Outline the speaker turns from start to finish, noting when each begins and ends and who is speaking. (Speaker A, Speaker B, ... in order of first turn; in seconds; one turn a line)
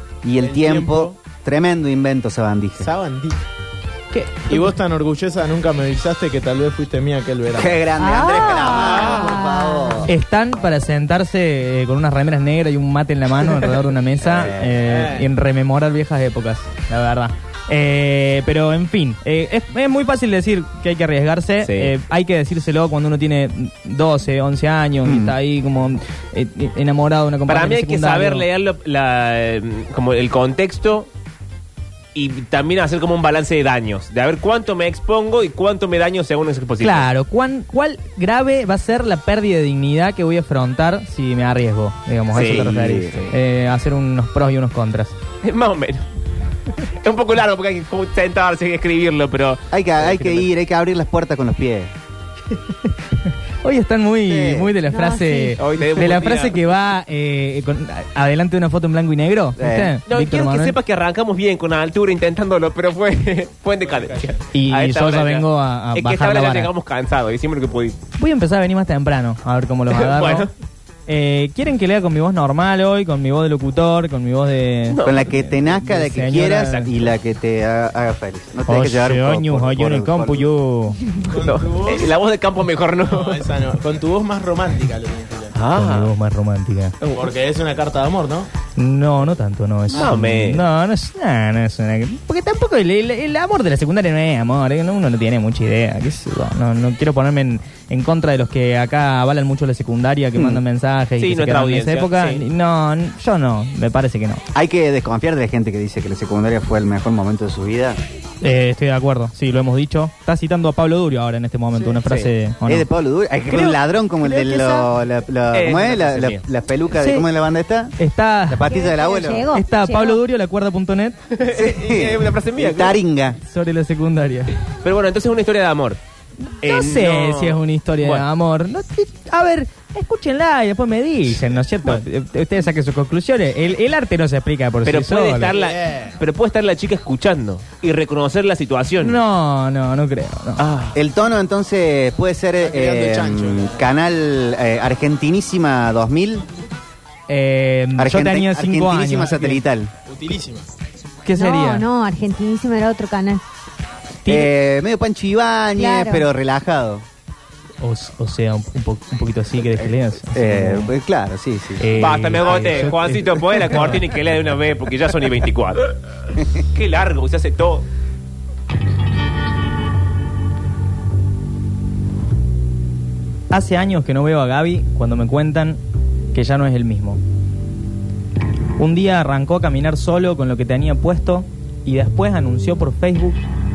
Speaker A: 0.2-2.9
Speaker B: 0.4-1.2
Speaker B: 2.8-3.4
Speaker B: 4.4-7.8
Speaker A: 7.5-10.1
Speaker C: 8.0-10.1
Speaker B: 8.7-9.3
Speaker D: 10.1-28.5
Speaker A: 14.2-14.8
Speaker B: 14.8-15.2
Speaker E: 21.6-21.9
Speaker A: 25.0-25.4
Speaker E: 27.5-31.1
Speaker E: 32.1-37.1
Speaker D: 36.8-45.2
Speaker E: 42.3-43.3
Speaker A: 42.4-43.2
Speaker E: 45.4-46.0
Speaker E: 46.9-50.5
Speaker A: 49.7-51.9
Speaker D: 53.6-60.8
Speaker A: 54.3-54.7
Speaker C: 54.9-55.6
Speaker E: 55.6-56.6
Speaker A: 59.6-60.0
Speaker E: 60.1-68.0
Speaker B: 63.8-64.4
Speaker D: 64.5-66.7
Speaker D: 68.2-70.5
Speaker E: 69.9-70.5
Speaker D: 71.1-76.9
Speaker E: 74.9-75.3
Speaker A: 75.0-80.5
Speaker E: 76.6-76.8
Speaker D: 78.7-81.1
Speaker B: 81.2-82.1
Speaker E: 81.4-83.4
Speaker B: 83.0-85.5
Speaker E: 85.5-86.1
Speaker D: 85.7-87.0
Speaker E: 87.0-87.3
Speaker B: 87.2-88.5
Speaker D: 88.8-104.4
Speaker E: 89.9-90.6
Speaker E: 101.2-102.5
Speaker A: 104.5-108.0
Speaker D: 108.4-112.9
Speaker E: 111.9-112.3
Speaker A: 112.7-118.0
Speaker D: 113.5-114.9
Speaker E: 115.5-116.4
Speaker D: 116.9-117.3
Speaker D: 118.0-118.7
Speaker A: 118.5-119.5
Speaker C: 118.7-120.2
Speaker D: 119.5-121.2
Speaker E: 121.3-123.0
Speaker A: 121.6-123.4
Speaker D: 123.4-124.5
Speaker E: 124.8-126.0
Speaker D: 126.6-135.5
Speaker E: 126.6-128.2
Speaker E: 134.8-139.2
Speaker B: 135.6-136.0
Speaker D: 139.0-140.6
Speaker E: 140.6-141.0
Speaker A: 140.9-146.4
Speaker B: 142.6-143.8
Speaker D: 147.3-149.6
Speaker A: 148.0-149.9
Speaker B: 150.1-150.7
Speaker D: 151.2-151.9
Speaker C: 151.3-153.4
Speaker D: 154.2-154.5
Speaker A: 154.3-157.0
Speaker C: 155.8-156.3
Speaker D: 157.8-160.9
Speaker A: 160.3-161.9
Speaker D: 161.8-164.0
Speaker E: 162.0-165.9
Speaker E: 166.6-167.9
Speaker D: 173.5-175.8
Speaker D: 176.3-177.2
Speaker D: 178.8-183.4